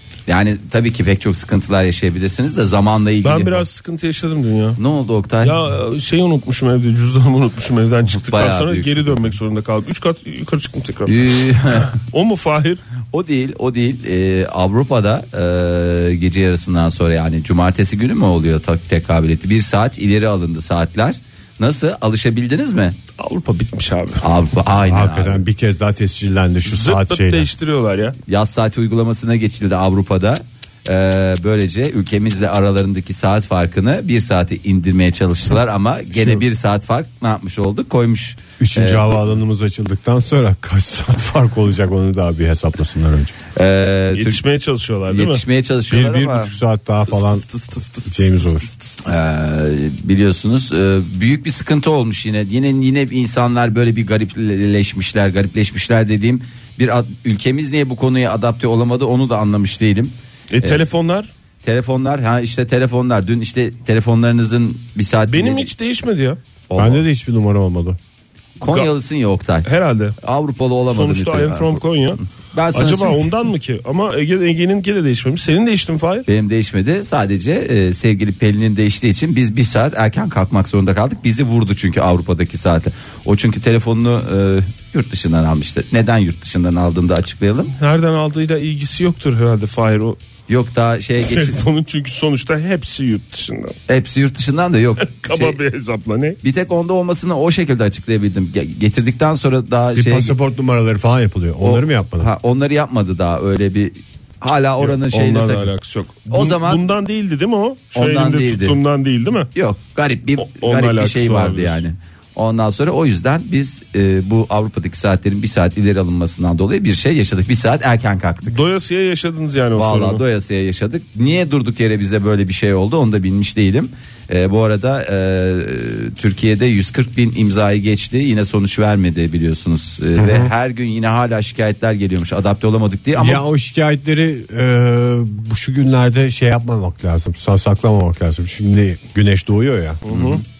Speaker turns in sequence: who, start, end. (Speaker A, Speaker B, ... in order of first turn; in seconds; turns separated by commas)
Speaker A: 0.3-3.6, Speaker B: 3.2-4.8, Speaker A: 4.8-5.6, Speaker B: 5.4-12.8, Speaker A: 8.1-9.3, Speaker A: 11.1-11.9, Speaker A: 13.1-23.0, Speaker B: 23.2-24.2, Speaker A: 24.2-25.4, Speaker C: 24.8-27.5, Speaker B: 26.6-28.1, Speaker A: 28.2-39.2, Speaker C: 38.6-43.3, Speaker A: 43.5-44.4, Speaker B: 44.1-45.4, Speaker A: 45.1-46.5, Speaker C: 45.9-47.5, Speaker B: 47.1-49.0, Speaker C: 48.0-48.7, Speaker A: 49.0-60.8, Speaker B: 60.5-61.3, Speaker A: 61.6-65.7, Speaker B: 65.3-66.4, Speaker A: 66.7-67.0, Speaker C: 66.8-68.0, Speaker A: 68.6-69.7, Speaker B: 68.6-68.9, Speaker B: 69.6-70.2, Speaker A: 70.2-71.8, Speaker B: 70.9-72.2, Speaker A: 72.5-73.2, Speaker B: 72.7-76.2, Speaker A: 76.2-87.7, Speaker B: 87.7-90.2, Speaker A: 90.5-91.6, Speaker B: 91.2-93.8, Speaker A: 93.9-95.6, Speaker B: 95.0-96.4, Speaker A: 96.4-100.3, Speaker C: 99.9-102.3, Speaker A: 101.6-105.7, Speaker B: 104.8-109.5, Speaker A: 106.3-106.8, Speaker A: 107.9-108.8, Speaker A: 109.5-118.6, Speaker B: 110.4-111.8, Speaker B: 118.4-120.2, Speaker A: 119.8-133.4, Speaker C: 130.2-130.5, Speaker C: 133.2-140.0, Speaker B: 140.1-140.4, Speaker A: 140.1-140.4